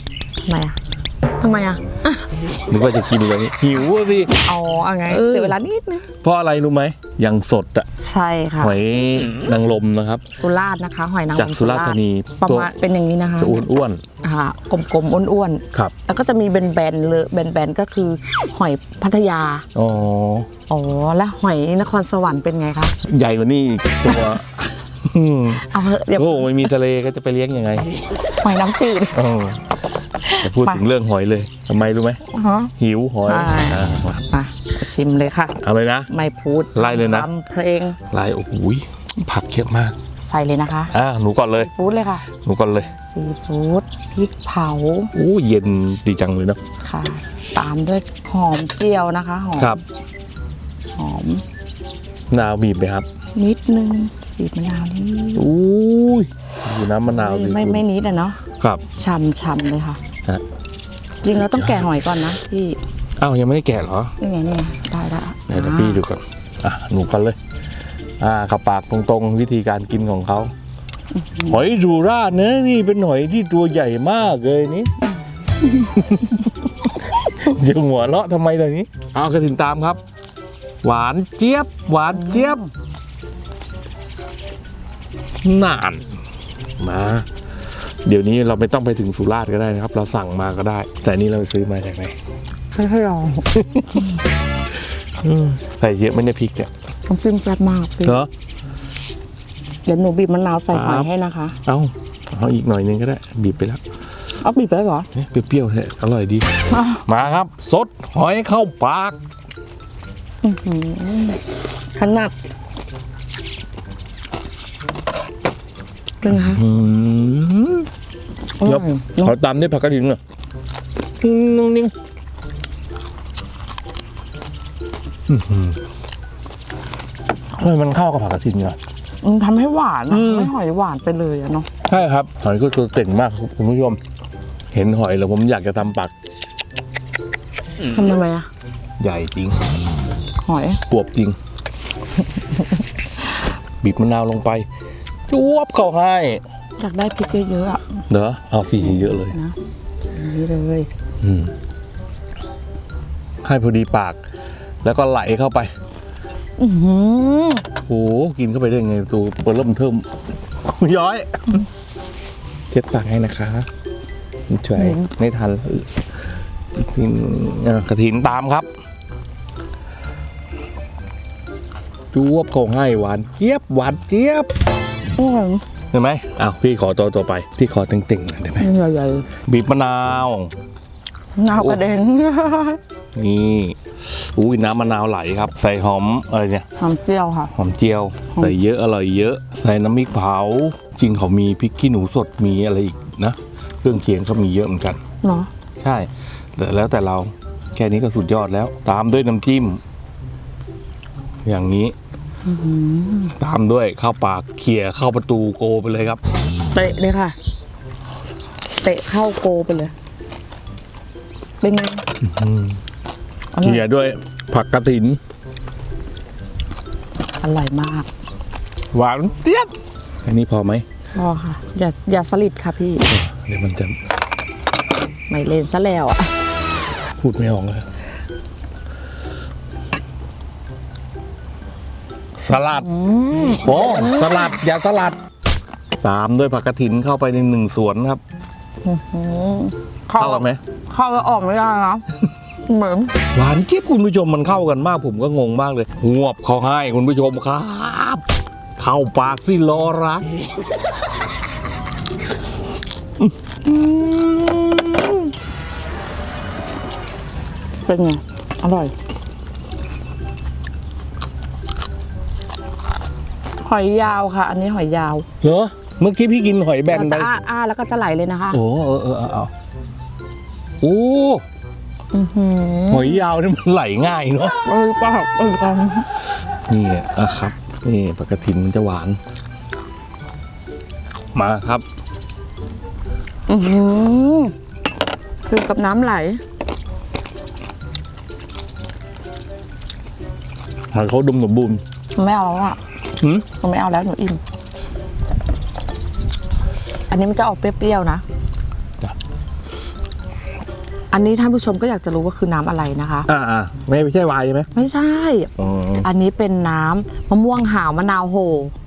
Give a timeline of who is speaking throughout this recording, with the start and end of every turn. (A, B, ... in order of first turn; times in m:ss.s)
0:00.4-0:00.8 A
0:01.4-0:02.3 A
0:02.7-0:04.3 B
0:04.4-0:06.1 A
0:05.1-0:05.6 B
0:06.2-0:07.9 B
0:08.0-0:08.8 A
0:08.6-0:10.2 B
0:10.4-0:13.7 A
0:11.3-0:12.7 B
0:13.4-0:14.0 B
0:14.2-0:19.6 A
0:19.7-0:20.5 B
0:20.7-0:23.0 A
0:23.0-0:28.0 B
0:25.6-0:26.7 A
0:28.3-0:29.2 A
0:29.1-0:29.7 B
0:30.2-0:30.8 A
0:30.4-0:32.2 B
0:32.3-0:32.7 A
0:32.8-0:34.2 B
0:33.2-0:38.0 A
0:35.6-0:36.1 B
0:36.7-0:37.3 B
0:38.1-0:40.0 B
0:40.2-0:42.2 A
0:40.9-0:41.7 B
0:42.3-0:42.9 B
0:42.9-0:45.1 A
0:45.1-0:46.6 B
0:46.8-0:49.8 A
0:51.0-0:51.4 A
0:52.3-0:53.0 B
0:53.4-0:55.5 A
0:55.4-0:57.8 B
0:56.7-1:00.0 A
1:01.2-1:02.8 A
1:01.3-1:02.1 B
1:03.2-1:04.1 B
1:04.2-1:06.0 A
1:05.5-1:07.4 B
1:08.2-1:10.5 B
1:11.2-1:11.5 A
1:11.4-1:14.9 B
1:15.8-1:16.5 B
1:17.2-1:20.0 B
1:20.8-1:22.6 B
1:22.1-1:22.7 A
1:25.4-1:26.1 B
1:26.8-1:27.2 B
1:28.0-1:32.2 B
1:32.7-1:33.7 A
1:33.5-1:34.1 B
1:35.2-1:36.7 B
1:37.1-1:38.2 A
1:38.0-1:38.3 B
1:39.8-1:41.6 A
1:40.7-1:41.1 B
1:41.6-1:43.8 B
1:44.4-1:45.1 A
1:45.1-1:49.2 B
1:46.7-1:47.0 A
1:50.4-1:51.4 A
1:51.9-1:52.3 A
1:56.2-1:56.6 A
1:56.3-1:57.9 B
1:58.6-1:59.3 A
1:58.6-2:00.2 B
2:01.2-2:01.9 B
2:05.3-2:05.8 B
2:07.5-2:08.8 B
2:09.2-2:11.7 A
2:10.1-2:10.5 B
2:11.8-2:14.0 B
2:14.7-2:16.1 B
2:17.9-2:18.5 A
2:19.0-2:19.7 B
2:20.4-2:20.8 A
2:20.9-2:21.4 B
2:22.3-2:22.8 A
2:23.8-2:24.7 B
2:25.3-2:26.4 B
2:26.8-2:27.8 A
2:28.1-2:29.4 B
2:28.8-2:29.5 A
2:30.1-2:30.9 A
2:31.2-2:31.5 B
2:33.4-2:34.2 B
2:34.8-2:35.7 B
2:36.6-2:37.6 A
2:37.8-2:41.6 B
2:42.7-2:43.7 B
2:44.5-2:45.9 B
2:44.8-2:45.1 A
2:46.8-2:48.7 B
2:52.1-2:54.5 B
2:55.2-2:55.6 A
2:55.9-2:58.7 B
2:58.6-2:59.3 A
2:59.4-3:00.5 B
3:01.4-3:02.8 A
3:01.5-3:01.8 B
3:03.1-3:06.7 B
3:06.8-3:07.5 A
3:07.5-3:15.0 B
3:15.2-3:15.5 A
3:15.8-3:19.8 B
3:21.4-3:21.9 B
3:22.4-3:23.3 A
3:23.4-3:26.2 B
3:26.7-3:27.3 A
3:28.8-3:29.9 A
3:31.6-3:32.0 A
3:32.2-3:32.8 B
3:33.5-3:33.8 A
3:33.6-3:35.2 B
3:37.4-3:38.1 A
3:38.9-3:39.7 B
3:40.2-3:40.8 B
3:41.1-3:43.1 A
3:43.1-3:44.0 B
3:45.3-3:46.3 A
3:47.2-3:47.8 B
3:52.4-3:52.9 B
3:52.7-3:54.5 A
3:53.4-3:55.2 B
3:56.0-3:58.2 B
3:58.8-4:02.0 A
4:00.2-4:00.6 B
4:02.6-4:03.1 A
4:03.3-4:08.2 B
4:08.8-4:10.4 B
4:13.2-4:15.2 B
4:17.8-4:18.9 A
4:23.6-4:25.2 A
4:25.4-4:27.3 B
4:26.9-4:28.6 A
4:28.5-4:29.5 B
4:30.8-4:31.4 B
4:32.1-4:33.2 A
4:32.9-4:34.6 B
4:34.6-4:36.1 A
4:36.7-4:39.2 B
4:41.3-4:41.8 B
4:43.5-4:44.5 A
4:45.4-4:46.4 A
4:50.9-4:51.8 B
4:52.2-4:52.8 A
4:53.2-4:53.4 B
4:53.5-4:54.4 A
4:57.1-4:58.2 A
5:01.1-5:03.3 A
5:03.3-5:04.7 B
5:04.7-5:08.7 A
5:05.6-5:06.1 B